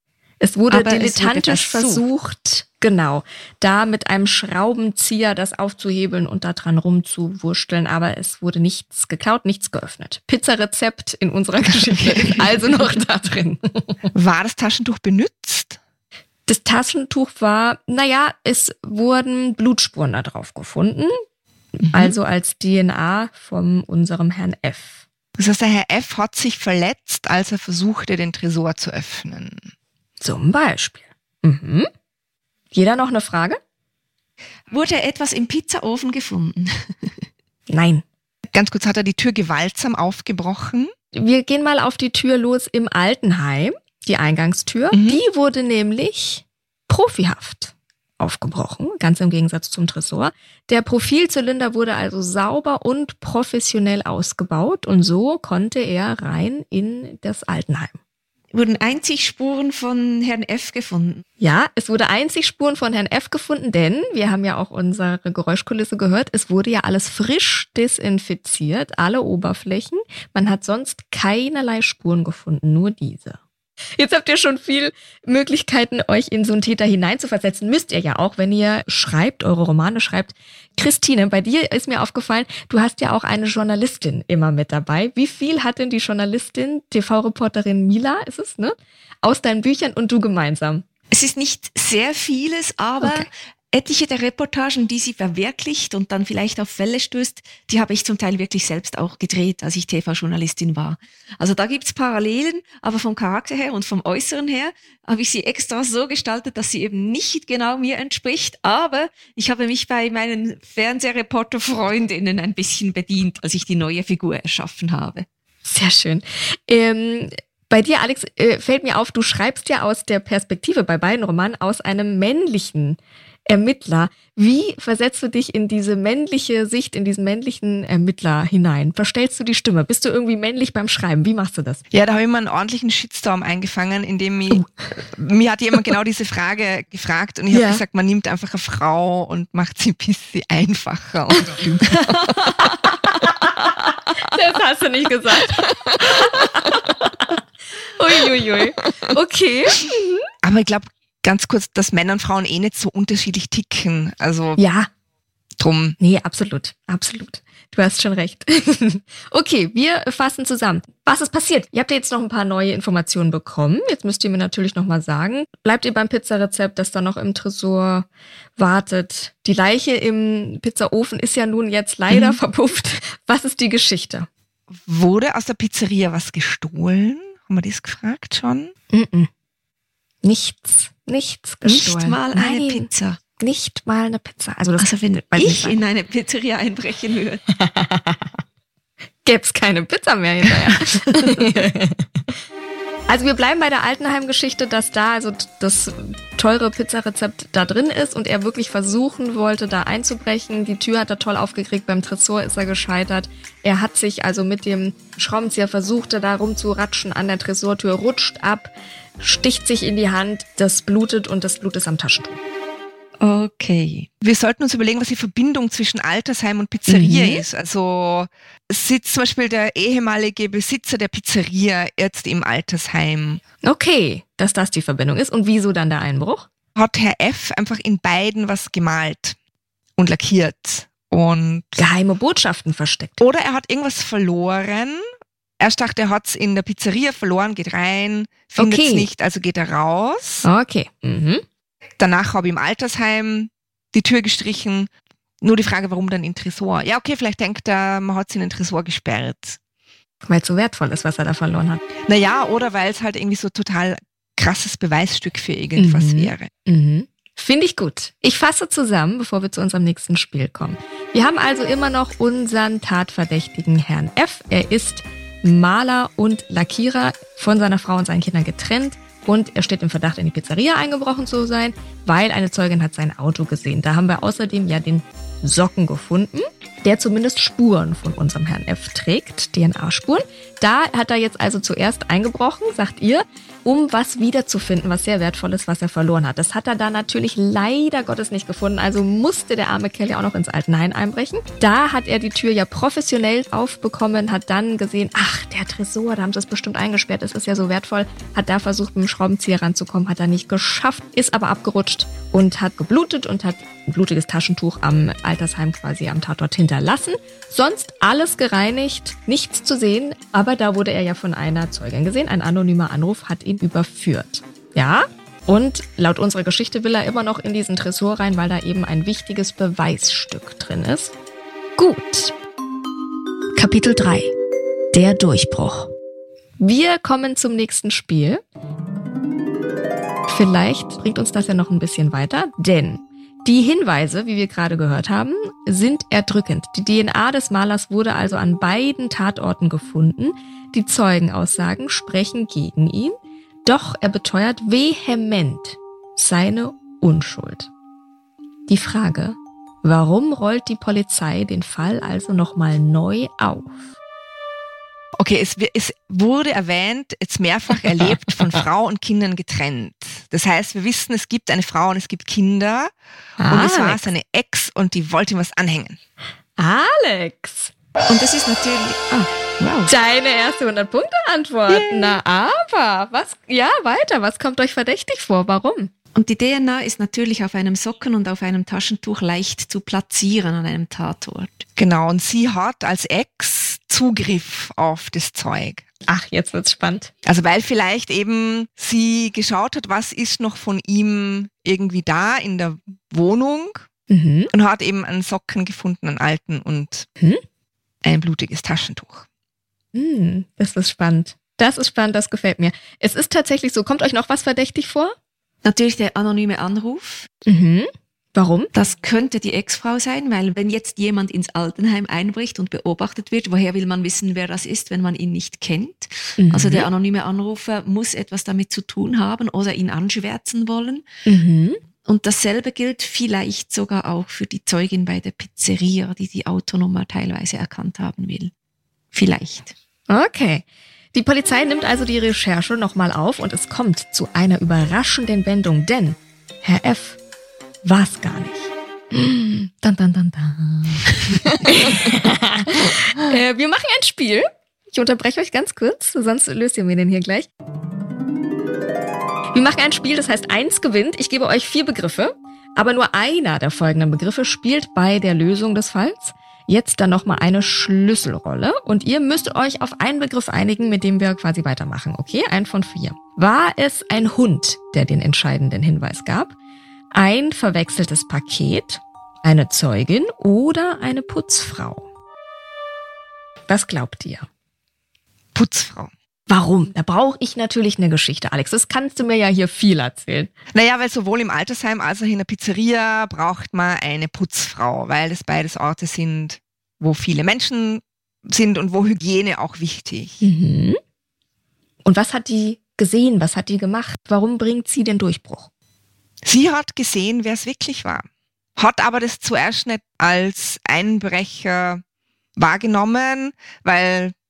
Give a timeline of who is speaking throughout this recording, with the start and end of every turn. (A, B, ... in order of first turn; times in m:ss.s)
0:00.4-0:14.0 A
0:00.7-0:02.0 B
0:11.8-0:12.6 C
0:14.1-0:15.8 C
0:16.5-0:21.2 A
0:21.8-0:25.0 A
0:21.9-0:22.2 C
0:25.4-0:29.7 C
0:30.2-0:31.9 A
0:32.7-0:33.6 A
0:34.7-0:37.2 B
0:37.7-0:38.0 A
0:38.5-0:40.9 C
0:41.1-0:58.0 A
0:44.9-0:45.2 C
0:58.5-1:01.2 B
1:01.4-1:13.4 A
1:14.0-1:30.8 A
1:31.1-1:55.3 B
1:33.0-1:33.3 A
1:55.7-2:11.8 A
2:11.9-2:22.4 C
2:17.5-2:17.8 A
2:22.1-2:22.6 B
2:24.2-2:26.9 A
2:28.0-2:30.3 A
2:30.4-2:34.6 C
2:34.6-2:34.9 A
2:35.6-2:36.0 C
2:36.0-2:54.3 A
2:54.7-2:58.7 C
2:58.9-2:59.3 A
3:00.2-3:02.9 A
3:01.6-3:03.2 B
3:03.4-3:05.8 A
3:04.8-3:07.4 B
3:07.6-3:08.3 A
3:09.2-3:12.0 A
3:10.9-3:11.4 B
3:13.1-3:32.4 A
3:33.2-3:34.1 B
3:34.2-3:43.4 C
3:36.9-3:37.4 A
3:43.6-3:46.5 A
3:46.8-3:49.4 C
3:50.0-3:51.8 C
3:51.8-3:53.2 A
3:53.2-3:55.1 C
3:55.6-4:00.5 C
3:58.6-3:59.1 A
4:00.4-4:01.4 A
4:02.0-4:04.9 C
4:05.4-4:09.6 C
4:10.2-4:11.8 A
4:12.1-4:16.5 C
4:15.8-5:21.1 A
5:21.8-5:22.3 A
5:23.6-5:24.3 A
5:24.9-5:25.9 A
5:26.6-5:28.4 A
5:30.3-5:47.7 A
5:48.7-5:53.8 A
5:55.2-6:02.9 C
6:03.4-6:04.1 A
6:03.5-6:06.0 C
6:06.6-6:07.7 A
6:08.1-6:09.9 B
6:09.9-6:15.9 A
6:16.2-6:21.6 B
6:21.8-6:25.8 C
6:26.1-6:27.1 A
6:27.2-6:33.9 C
6:34.1-6:34.5 A
6:34.5-6:37.1 C
6:38.0-6:39.3 C
6:39.9-6:45.2 A
6:45.6-6:47.3 B
6:47.5-6:48.7 A
6:48.7-7:01.0 B
6:56.4-6:56.9 A
7:01.3-7:01.8 A
7:02.1-7:08.5 B
7:09.1-7:09.7 B
7:10.1-7:17.2 A
7:17.8-7:21.0 A
7:21.6-7:27.5 A
7:29.5-7:46.6 A
7:47.1-7:52.1 A
7:53.7-7:54.5 A
7:55.5-7:56.1 C
7:56.5-8:00.5 A
8:00.7-8:10.4 C
8:10.4-8:11.0 A
8:12.0-8:15.7 A
8:16.4-8:22.0 C
8:22.6-8:24.3 C